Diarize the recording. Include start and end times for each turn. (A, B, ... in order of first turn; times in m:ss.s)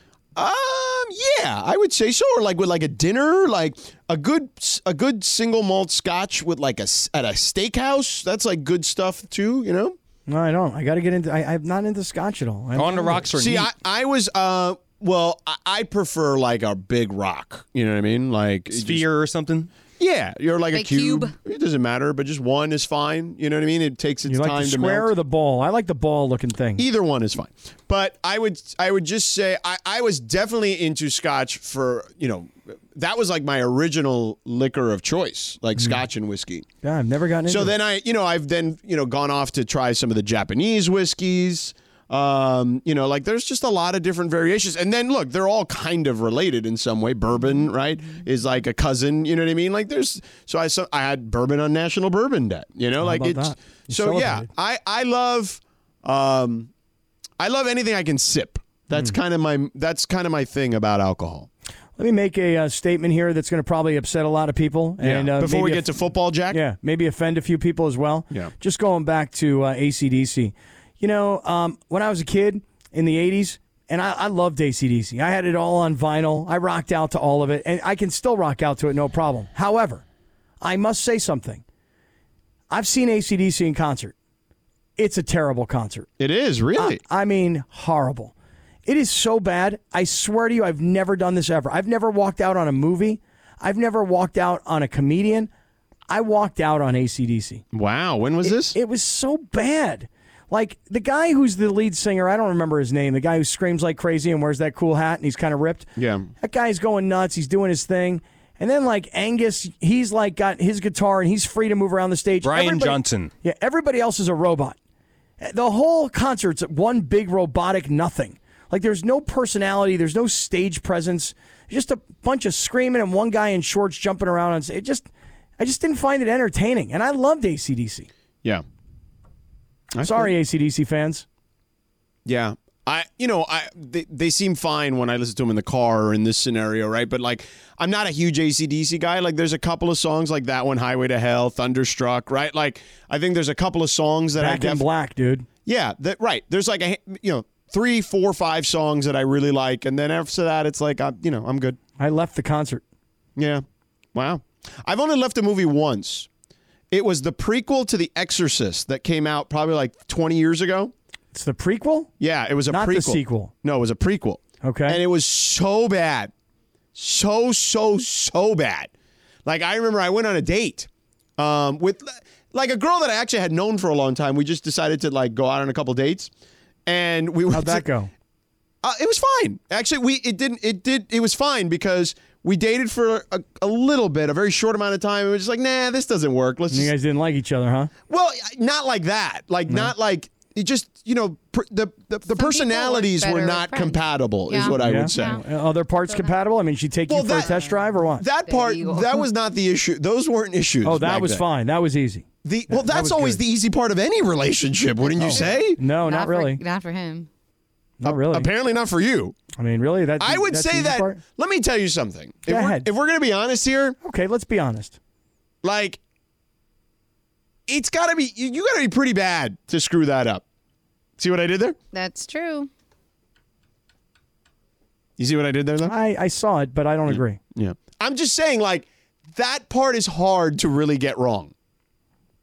0:00.4-0:10.0 A
0:10.3-0:13.3 B
0:12.8-0:13.7 C
0:13.2-0:19.1 A
0:18.7-0:19.7 C
0:20.0-0:25.1 A
0:20.7-0:21.4 D
0:24.2-0:26.9 B
0:26.8-0:36.7 A
0:36.8-0:37.8 B
0:37.5-0:56.7 A
0:53.0-0:54.5 B
0:57.4-1:01.5 A
1:02.0-1:05.9 B
1:05.0-1:06.6 A
1:06.5-1:20.0 B
1:20.6-1:21.6 B
1:22.7-1:24.1 B
1:25.0-1:26.1 B
1:26.2-1:27.0 A
1:26.8-1:28.3 B
1:28.9-1:35.5 B
1:36.1-1:37.6 B
1:37.7-1:38.8 A
1:38.4-1:54.8 B
1:46.0-1:46.3 A
1:52.4-1:53.3 C
1:55.4-2:08.1 B
2:09.9-2:10.3 A
2:10.0-2:11.2 B
2:12.3-2:24.8 A
2:24.4-2:25.5 B
2:25.6-2:31.8 A
2:32.0-2:32.8 B
2:33.4-2:36.3 A
2:36.9-2:40.9 A
2:41.3-2:42.1 B
2:42.2-2:46.3 A
2:42.7-2:43.5 B
2:44.6-2:45.0 B
2:47.0-2:48.9 A
2:49.5-2:56.3 A
2:56.9-2:57.8 A
2:57.5-2:58.1 B
2:58.8-3:06.9 A
3:06.7-3:07.9 B
3:08.1-3:15.4 A
3:09.7-3:09.9 B
3:12.3-3:15.4 D
3:14.6-3:18.2 B
3:16.0-3:16.3 D
3:17.1-3:17.6 A
3:17.2-3:17.8 D
3:18.2-3:21.4 A
3:18.3-3:19.3 D
3:20.8-3:23.4 B
3:22.4-3:25.8 A
3:25.0-3:27.3 D
3:25.2-3:26.6 B
3:28.0-3:28.5 B
3:28.0-3:29.4 A
3:29.5-3:31.2 B
3:30.2-3:34.0 A
3:32.5-3:32.9 B
3:34.0-3:35.0 B
3:35.6-3:36.0 A
3:37.7-3:40.4 A
3:41.2-3:41.8 A
3:41.9-3:42.7 D
3:45.2-3:45.9 A
3:45.8-3:47.4 B
3:47.1-3:51.5 A